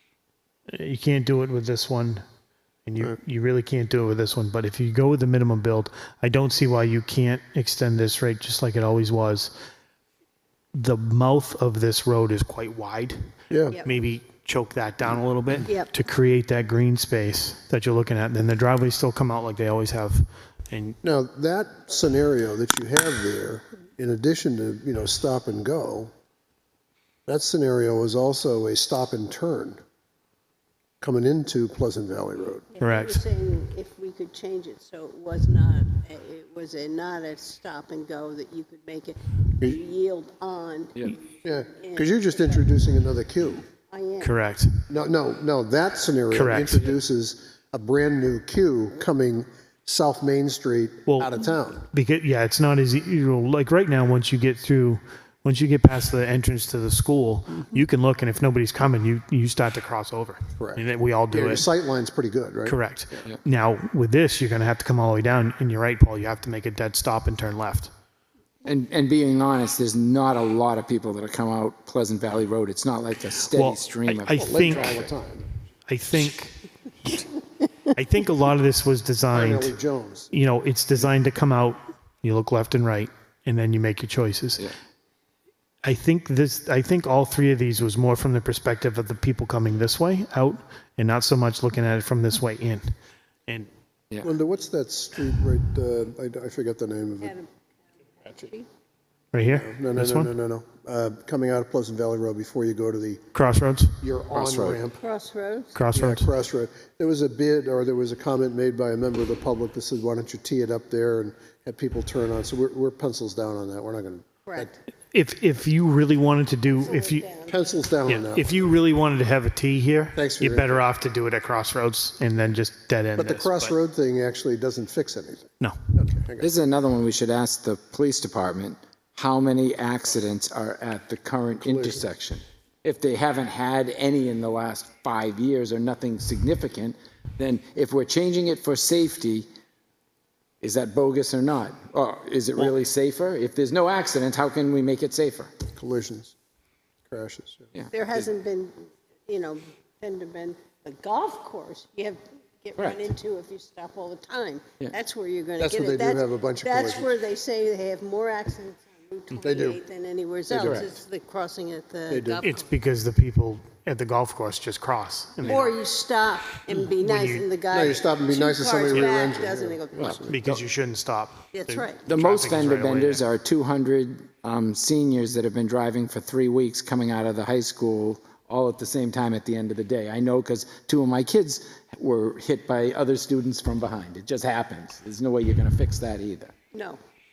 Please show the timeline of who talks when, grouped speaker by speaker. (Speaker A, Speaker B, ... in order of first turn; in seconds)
Speaker A: 0.7-2.2, 2.9-9.5, 10.7-13.2, 13.8-21.0, 32.8-33.2, 44.2-44.7, 46.3-47.0, 51.9-61.6, 62.7-67.9, 73.5-74.9, 75.9-77.3, 77.9-79.7, 80.3-84.7, 85.8-92.9, 99.3-100.3, 103.3-104.0, 105.8-106.3, 115.1-117.3, 118.1-123.7, 162.4-165.7, 167.0-167.5, 170.3-173.3
Speaker B: 13.5-13.8, 21.0-26.1, 27.3-29.8, 31.0-32.7, 41.4-43.6, 44.9-51.9, 60.6-63.3, 74.4-75.5, 79.3-80.3, 94.2-97.3, 99.5-103.2, 104.0-105.0, 105.9-114.7, 117.5-118.7, 120.2-120.8, 123.2-126.5, 131.6-132.1, 145.8-146.3, 147.1-147.7, 155.6-157.1, 159.4-159.8, 160.5-160.8, 162.1-162.4, 167.7-170.4
Speaker C: 32.7-42.7, 43.9-44.3, 97.2-97.5, 98.1-98.7, 105.0-105.8, 114.5-114.8, 116.8-117.6, 147.9-162.8, 165.4-170.2, 171.5-172.1, 186.7-187.0
Speaker D: 68.7-75.1, 104.3-104.8, 126.4-139.5, 140.6-145.5, 147.8-148.0, 152.8-153.1, 160.6-160.9, 170.0-170.6, 172.1-186.5